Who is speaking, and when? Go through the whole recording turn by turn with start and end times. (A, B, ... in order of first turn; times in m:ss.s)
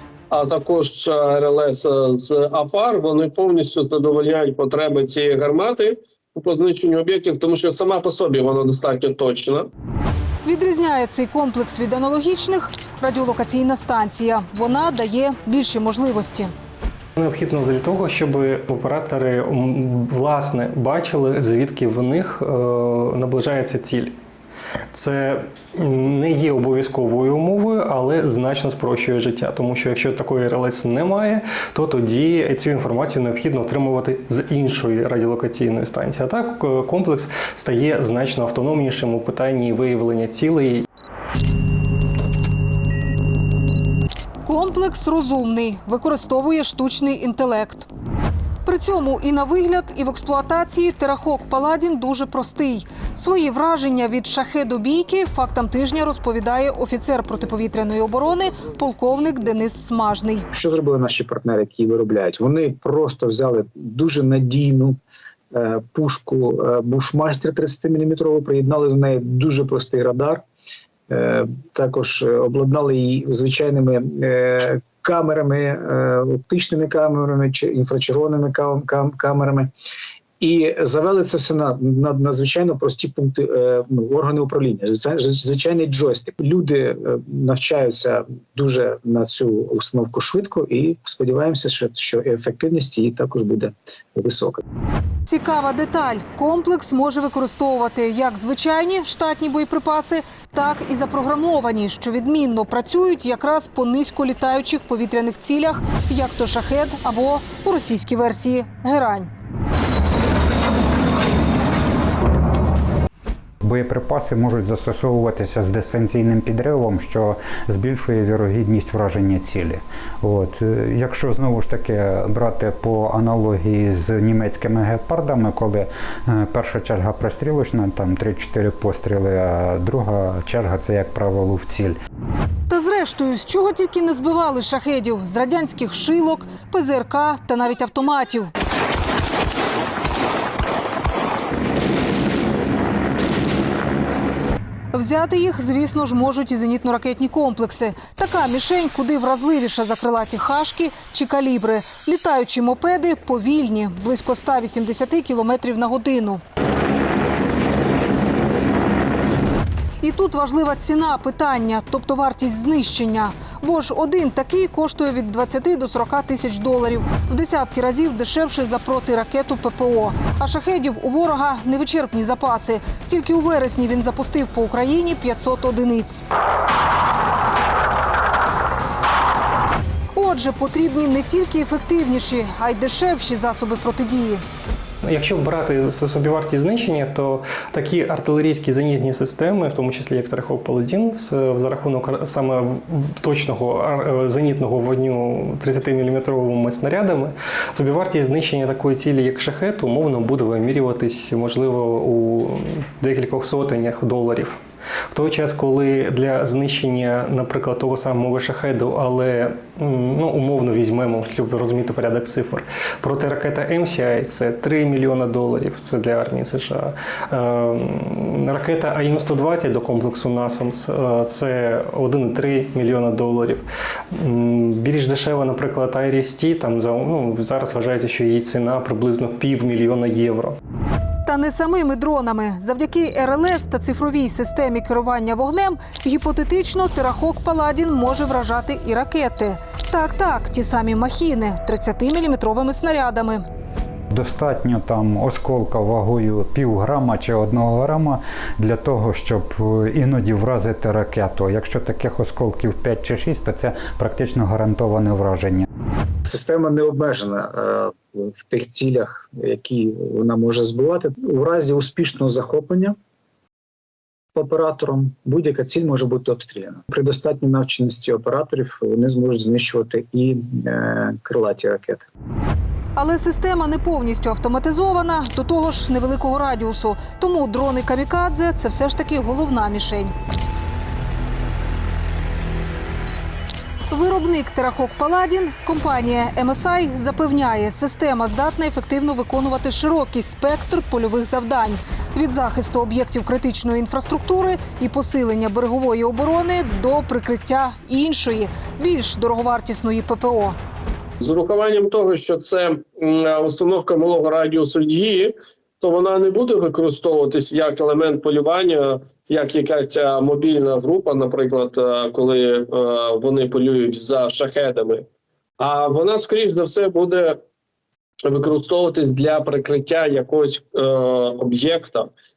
0:00.3-0:09.7 A
0:10.4-0:16.5 B
0:17.2-0:24.1 C
0:24.9-0:40.8 C
0:44.4-0:47.9 B
0:48.6-1:00.5 B
1:00.5-1:05.0 D
1:05.5-1:10.4 D
1:11.1-1:19.7 D
1:20.4-1:34.6 D
1:35.2-1:49.3 B
1:53.6-2:12.0 E
2:12.7-2:18.5 B
2:24.9-2:36.4 B
2:40.0-2:56.2 B
3:00.1-3:04.4 B
3:05.0-3:24.6 C
3:25.1-3:43.6 C
3:44.2-3:50.6 C
3:51.2-4:03.4 B
4:04.1-4:15.6 E
4:16.2-4:23.0 D
4:24.3-4:32.0 D
4:33.0-4:40.1 B
4:43.9-5:00.6 B
5:01.2-5:15.0 A
5:15.6-5:17.4 A
5:18.3-5:22.1 A